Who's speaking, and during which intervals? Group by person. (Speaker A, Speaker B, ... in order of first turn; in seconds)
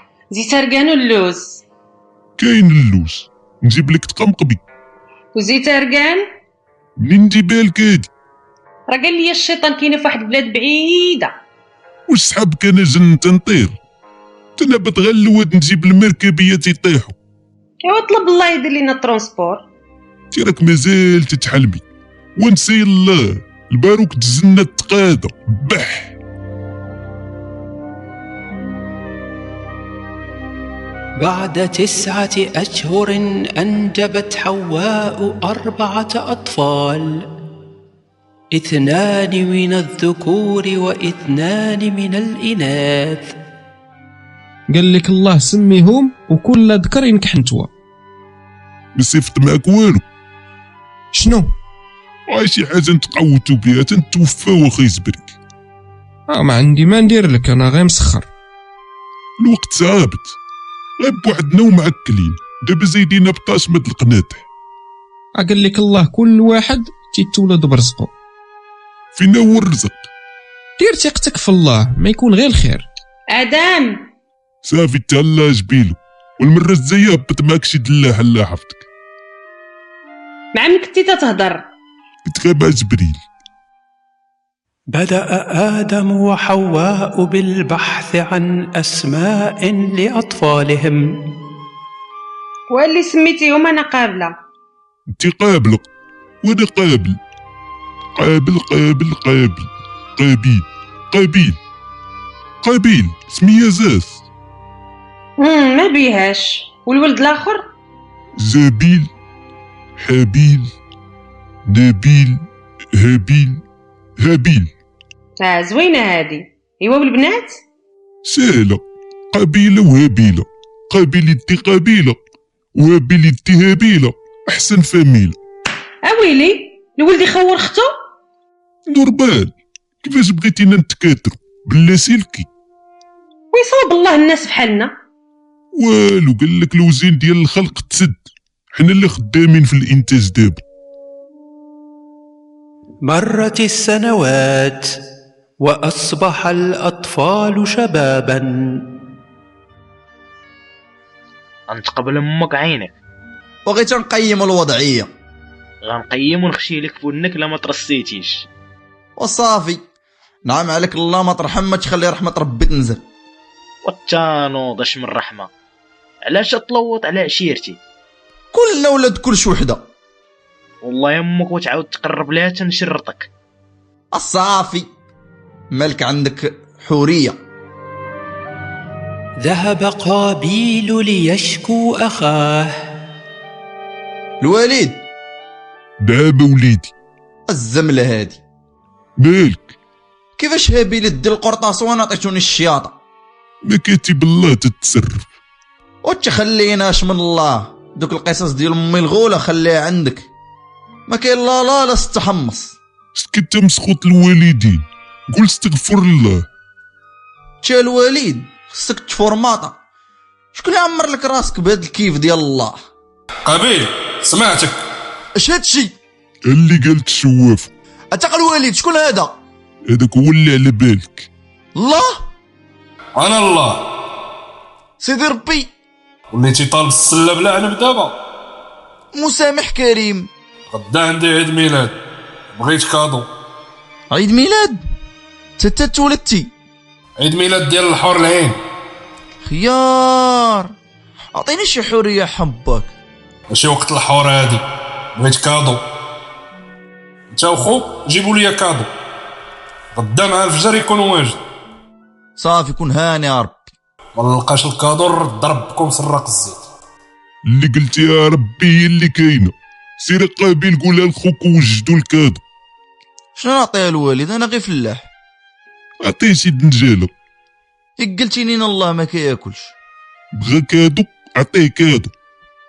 Speaker A: 0.3-1.6, 5.3-6.2, 8.9-11.3, 17.8-19.6, 73.3-74.0, 80.5-81.7, 92.7-94.3, 105.4-107.7, 115.4-117.6, 126.1-127.9, 133.5-134.9
Speaker B: 2.4-4.6, 7.0-8.1, 12.1-13.8, 14.6-17.1, 20.3-21.8, 22.4-26.1, 49.0-50.0, 52.3-55.3, 59.4-60.4, 61.0-64.4, 69.2-70.1, 74.7-78.9, 82.2-83.2, 95.2-95.9, 96.4-97.2, 98.2-101.6, 102.6-104.2, 108.4-109.1, 110.0-110.7, 111.7-113.6, 114.2-114.7, 118.2-122.2, 122.8-125.4, 128.9-132.5, 135.8-138.2, 138.7-140.6, 186.0-186.9, 189.2-189.7, 193.7-195.3, 203.2-206.4, 216.5-217.7, 219.9-221.3, 257.5-262.4, 266.0-267.1, 270.3-272.1
Speaker C: 31.2-37.3, 38.5-43.3, 84.9-91.1, 143.1-144.9, 145.6-148.8, 179.4-182.7
Speaker D: 44.7-47.7, 51.1-51.5, 56.3-58.3, 65.4-68.1, 70.8-72.9
Speaker E: 151.7-152.9, 155.8-158.5, 163.8-165.5, 166.3-167.8, 170.8-173.3
Speaker F: 153.7-155.1, 159.2-159.8, 160.5-163.0, 168.5-169.8, 174.1-174.9, 175.7-177.4, 184.4-185.0, 187.5-188.4, 190.4-192.9, 196.1-200.3, 201.1-202.8, 207.6-209.8, 210.6-212.8, 215.4-215.9, 218.1-219.3, 221.8-222.2, 225.0-225.7, 229.1-230.3, 234.1-234.8, 235.6-236.5, 239.4-240.7, 241.3-242.9, 252.4-253.6, 263.4-265.1, 268.0-269.7
Speaker G: 213.4-214.8, 223.2-223.8, 226.3-228.2, 230.7-231.9, 232.6-233.3, 237.2-238.6, 243.5-244.6, 245.2-245.8, 247.3-248.9, 249.9-251.4, 254.2-256.7